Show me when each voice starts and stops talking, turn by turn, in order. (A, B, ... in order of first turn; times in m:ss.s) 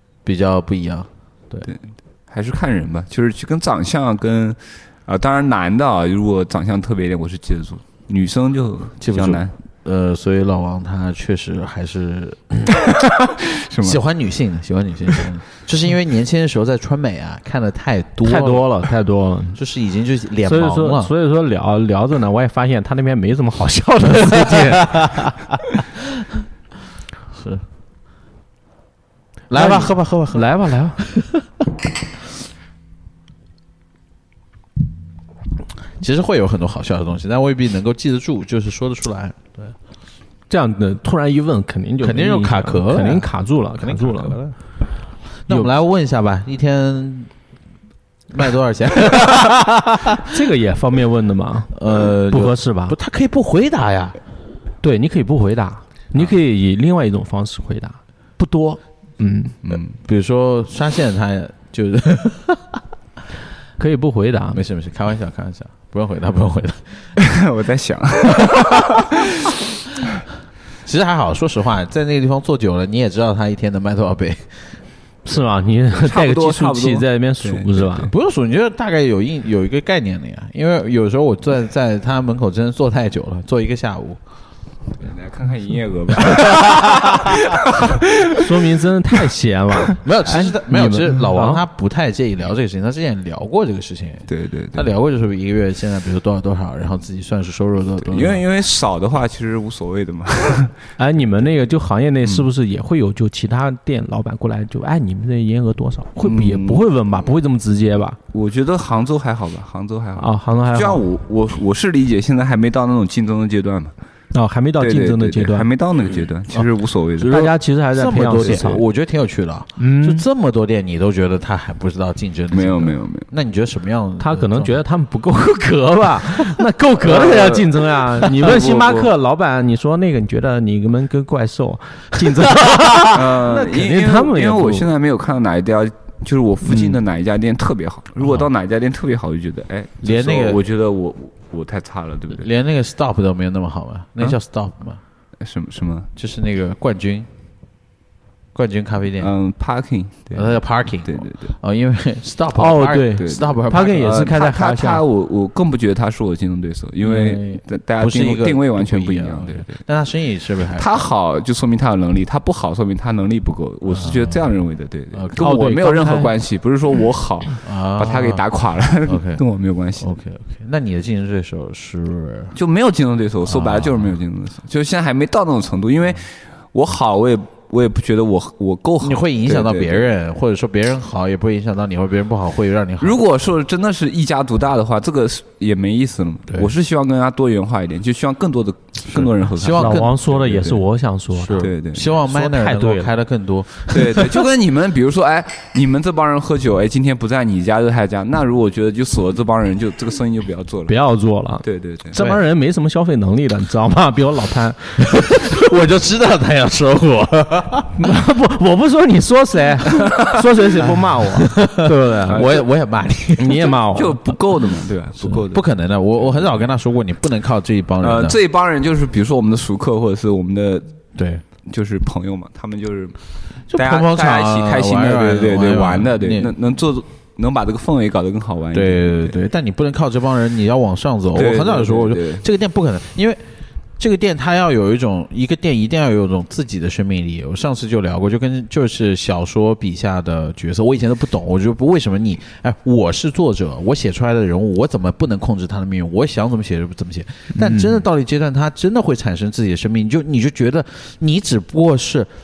0:00.2-0:01.7 A
0:01.7-0:09.5 B
0:09.0-0:12.7 A
0:12.9-0:14.0 B
0:13.8-0:18.6 A
0:18.2-0:19.6 C
0:19.6-0:21.1 A
0:20.4-0:25.4 C
0:27.3-0:27.6 A
0:29.5-0:30.5 A
0:29.5-0:31.0 C
0:36.0-0:39.7 A
0:40.5-0:44.4 C
0:42.0-0:44.6 A
0:45.5-0:47.3 A
0:48.3-0:50.2 A
0:50.2-0:53.0 C
0:51.7-0:54.2 A
0:54.8-0:59.6 C
0:59.6-1:00.0 B
1:00.0-1:02.8 A
1:03.8-1:04.6 C
1:04.5-1:07.1 A
1:07.2-1:09.5 B
1:10.8-1:14.7 A
1:15.2-1:18.1 C
1:15.9-1:18.1 B
1:18.1-1:24.2 A
1:25.0-1:28.0 B
1:26.5-1:27.0 A
1:28.3-1:31.6 C
1:30.0-1:38.4 A
1:34.3-1:34.9 B
1:38.0-1:40.8 B
1:41.0-1:48.2 C
1:46.2-1:46.8 B
1:48.3-1:53.9 B
1:50.2-1:51.0 C
1:54.3-1:55.7 C
1:54.8-1:57.5 B
1:57.2-1:58.8 C
1:57.9-2:04.8 A
1:58.4-1:58.8 B
1:59.8-2:00.2 C
2:02.5-2:03.3 B
2:04.2-2:14.9 C
2:07.0-2:09.1 B
2:13.1-2:22.5 B
2:16.7-2:17.0 C
2:20.0-2:20.6 A
2:22.3-2:25.0 A
2:25.4-2:26.1 B
2:26.2-2:27.3 A
2:28.6-2:29.3 A
2:29.2-2:31.5 B
2:30.3-2:34.3 A
2:32.6-2:35.0 C
2:34.0-2:39.8 B
2:37.0-2:41.0 A
2:40.8-2:50.2 B
2:43.9-2:44.3 A
2:45.1-2:45.4 A
2:45.4-2:46.3 C
2:47.6-2:48.4 A
2:49.1-2:49.4 A
2:50.0-2:52.6 A
2:52.6-3:00.1 B
2:53.5-2:54.1 A
2:59.0-3:03.2 A
3:03.0-3:10.8 B
3:09.1-3:10.2 A
3:09.8-3:13.1 C
3:11.4-3:14.4 A
3:11.6-3:12.1 B
3:13.9-3:21.0 B
3:20.9-3:25.3 C
3:21.6-3:22.2 B
3:22.2-3:22.4 A
3:25.1-3:28.0 A
3:27.9-3:32.6 C
3:31.4-3:33.8 A
3:32.3-3:32.6 B
3:33.4-3:34.3 C
3:33.9-3:35.7 B
3:35.2-3:38.4 A
3:36.2-3:36.5 B
3:38.0-3:41.0 B
3:41.2-3:41.4 A
3:41.6-3:43.2 B
3:43.7-3:46.5 A
3:43.7-3:49.3 B
3:48.7-3:53.4 A
3:51.3-3:52.4 B
3:54.0-4:12.3 A
4:07.6-4:08.0 C